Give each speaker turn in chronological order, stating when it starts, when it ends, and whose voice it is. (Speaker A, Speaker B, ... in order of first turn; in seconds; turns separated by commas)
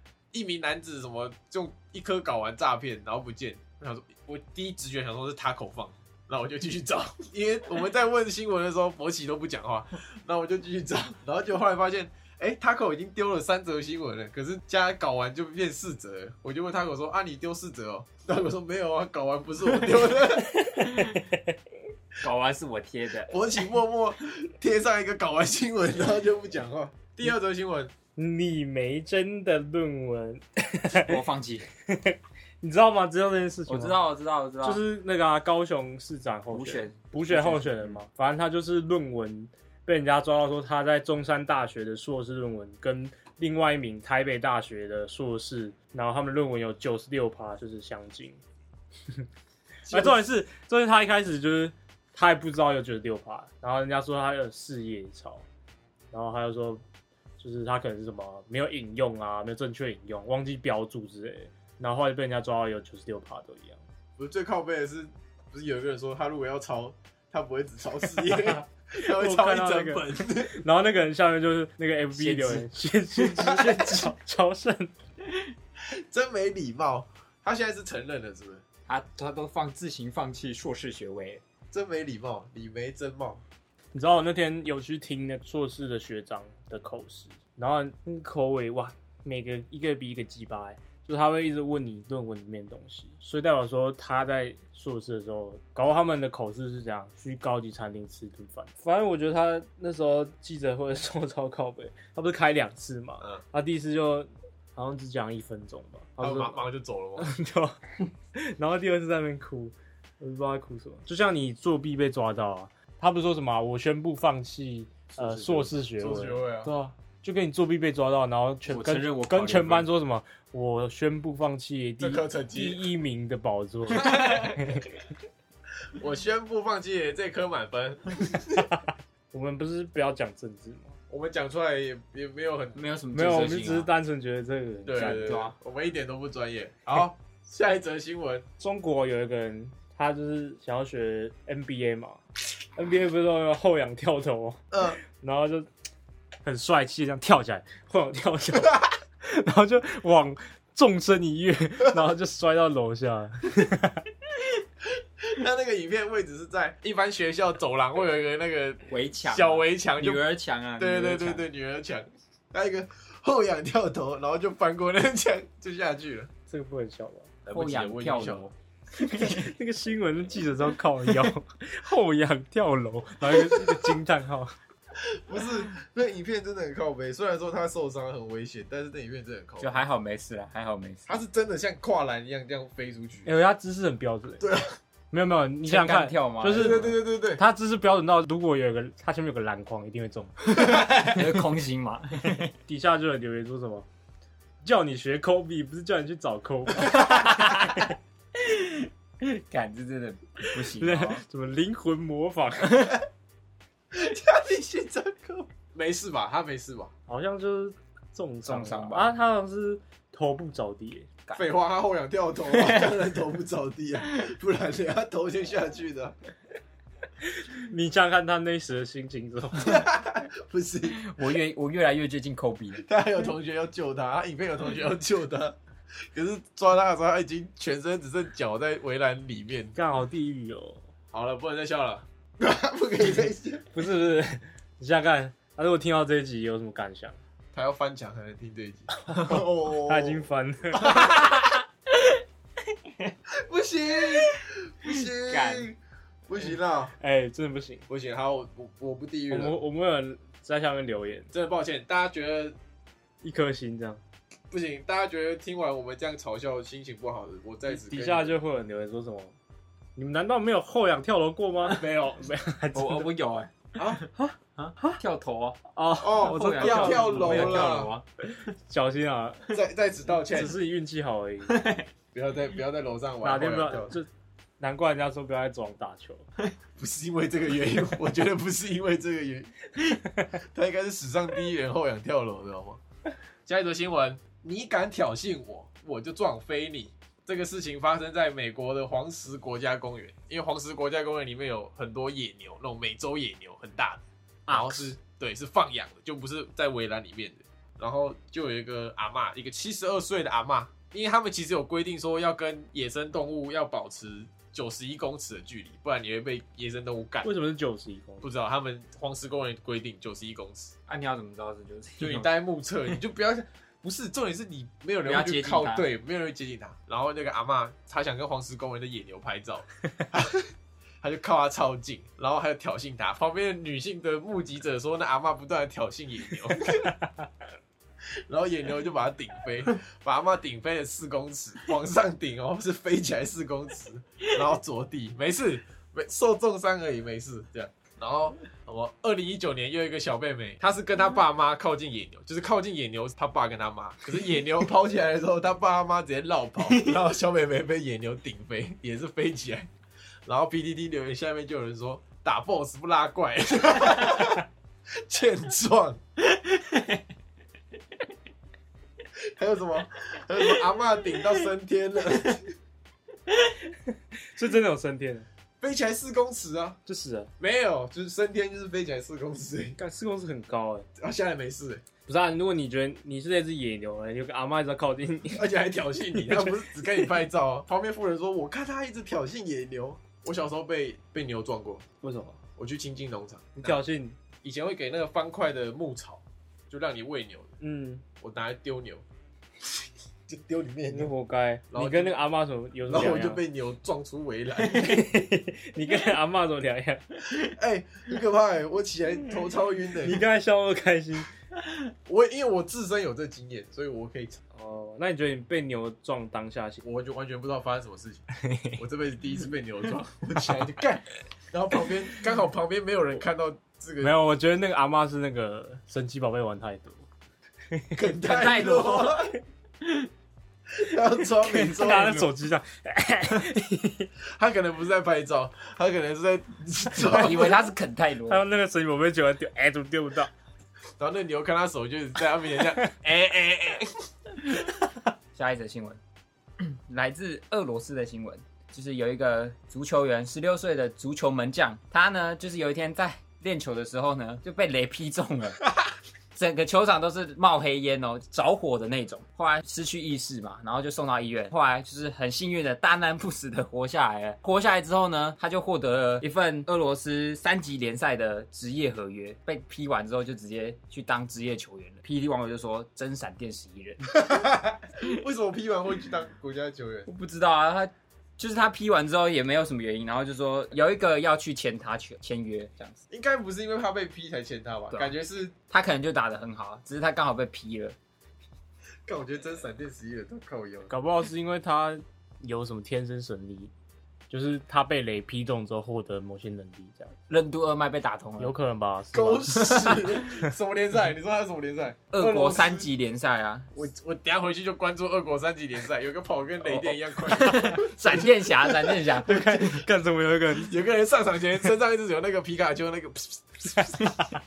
Speaker A: 0.3-20.6, Speaker B: 20.7-21.2, Speaker C: 20.7-21.5, Speaker B: 22.2-23.3, Speaker A: 23.3-27.9, Speaker C: 28.2-31.2, Speaker B: 30.9-31.7, Speaker C: 31.9-34.0, Speaker B: 33.7-34.9, Speaker C: 34.6-48.4, Speaker B: 36.5-38.0, Speaker A: 49.9-50.2, Speaker C: 49.9-55.5, Speaker C: 56.1-56.8, Speaker C: 57.4-63.8, Speaker A: 64.2-70.6, Speaker C: 68.3-74.9, Speaker B: 72.1-72.7, Speaker A: 73.3-73.8, Speaker A: 76.1-78.6, Speaker B: 78.9-81.4, Speaker A: 81.7-83.4, Speaker C: 83.9-106.6, Speaker A: 106.2-107.3, Speaker C: 107.2-107.8, Speaker C: 108.3-124.9, Speaker B: 115.2-115.7, Speaker A: 116.0-116.7, Speaker B: 118.7-119.9, Speaker A: 122.0-122.9, Speaker A: 123.9-124.8, Speaker A: 126.0-128.7, Speaker C: 129.3-130.9, Speaker A: 131.1-132.8, Speaker B: 132.8-133.9, Speaker C: 133.1-135.5, Speaker A: 134.9-138.5, Speaker B: 134.9-135.6, Speaker C: 138.6-142.2, Speaker C: 142.8-145.7, Speaker A: 144.7-145.0, Speaker C: 146.4-154.1, Speaker A: 155.3-160.3, Speaker B: 158.9-161.5, Speaker A: 160.8-166.3, Speaker C: 166.5-167.3, Speaker A: 167.4-168.5, Speaker B: 167.5-169.5, Speaker C: 169.0-174.6, Speaker A: 173.6-173.9, Speaker A: 174.9-179.8, Speaker B: 179.6-181.2, Speaker A: 181.1-183.3, Speaker C: 183.2-184.5, Speaker A: 184.4-184.7, Speaker C: 185.1-190.8, Speaker B: 185.7-186.9, Speaker A: 186.5-187.4, Speaker B: 190.5-192.5, Speaker C: 192.7-193.9, Speaker C: 194.6-197.6, Speaker B: 196.8-197.9, Speaker B: 198.4-201.2, Speaker C: 200.7-203.0, Speaker A: 203.9-206.9, Speaker C: 207.1-211.1, Speaker B: 208.4-209.1, Speaker A: 211.3-216.2, Speaker B: 212.5-213.2, Speaker C: 217.5-219.8, Speaker A: 219.6-221.0, Speaker B: 221.0-222.8, Speaker A: 222.7-225.6, Speaker A: 226.1-229.8, Speaker C: 229.7-230.8, Speaker A: 231.1-233.7, Speaker C: 233.7-237.2, Speaker A: 237.5-241.3, Speaker C: 239.2-241.0, Speaker B: 241.0-242.2, Speaker A: 243.4-246.9, Speaker B: 245.1-245.7, Speaker C: 246.4-247.9, Speaker A: 247.9-249.6, Speaker C: 249.3-251.3, Speaker A: 251.3-252.6, Speaker C: 253.2-254.0, Speaker A: 254.5-258.4, Speaker C: 257.7-259.3, Speaker C: 260.0-263.1, Speaker A: 261.7-262.2, Speaker B: 262.7-265.6, Speaker A: 263.8-264.0, Speaker C: 264.2-265.0, Speaker C: 265.7-267.8, Speaker A: 266.0-267.9, Speaker B: 266.2-268.1, Speaker C: 268.6-269.4, Speaker A: 269.5-270.6, Speaker C: 270.3-271.6, Speaker B: 271.5-271.9, Speaker A: 272.1-273.9, Speaker C: 273.2-276.2, Speaker A: 276.8-279.7, Speaker A: 280.3-282.8, Speaker A: 283.5-307.3, Speaker C: 294.5-294.9, Speaker C: 307.2-308.3, Speaker A: 308.2-310.7, Speaker B: 310.9-312.3, Speaker A: 312.0-320.5, Speaker B: 315.1-315.9, Speaker A: 321.0-326.9, Speaker A: 328.3-349.7, Speaker A: 350.3-354.4, Speaker A: 355.1-356.0, Speaker B: 356.4-357.0, Speaker A: 359.4-362.5, Speaker B: 361.1-361.4, Speaker C: 364.3-365.3, Speaker A: 365.6-366.8, Speaker C: 366.9-367.3, Speaker A: 367.4-369.8, Speaker C: 369.8-370.9, Speaker A: 371.0-371.8, Speaker C: 372.1-375.5, Speaker A: 375.4-381.8, Speaker C: 376.1-376.6, Speaker C: 382.0-382.4, Speaker A: 382.6-383.8, Speaker C: 383.6-384.2, Speaker A: 384.4-387.5, Speaker C: 387.6-388.0, Speaker A: 388.2-389.0, Speaker A: 390.3-391.1, Speaker C: 390.9-393.4, Speaker A: 391.7-392.2, Speaker A: 392.9-395.1, Speaker C: 394.6-397.2, Speaker A: 397.4-400.2, Speaker C: 400.0-401.3, Speaker A: 402.1-404.4, Speaker C: 404.6-406.8, Speaker A: 406.8-414.2, Speaker C: 414.0-417.0, Speaker C: 417.7-418.1, Speaker A: 417.9-419.4, Speaker B: 418.3-419.2, Speaker A: 420.8-422.3, Speaker B: 421.4-422.0, Speaker C: 421.6-424.1, Speaker A: 424.4-427.6, Speaker B: 427.0-428.4, Speaker C: 427.1-427.5, Speaker C: 428.3-430.3, Speaker A: 431.0-433.9, Speaker B: 435.4-436.0, Speaker B: 436.6-445.7, Speaker B: 446.4-464.1, Speaker A: 464.1-467.1, Speaker B: 467.1-473.0, Speaker A: 473.1-475.5, Speaker B: 475.7-478.0, Speaker A: 479.1-480.9, Speaker C: 480.9-483.7, Speaker C: 484.3-487.1, Speaker B: 487.3-488.6, Speaker C: 488.4-490.3, Speaker A: 489.1-492.9, Speaker B: 489.6-490.2, Speaker B: 492.1-493.7, Speaker A: 493.7-499.8, Speaker B: 496.6-499.6, Speaker C: 499.2-500.8, Speaker A: 500.6-504.1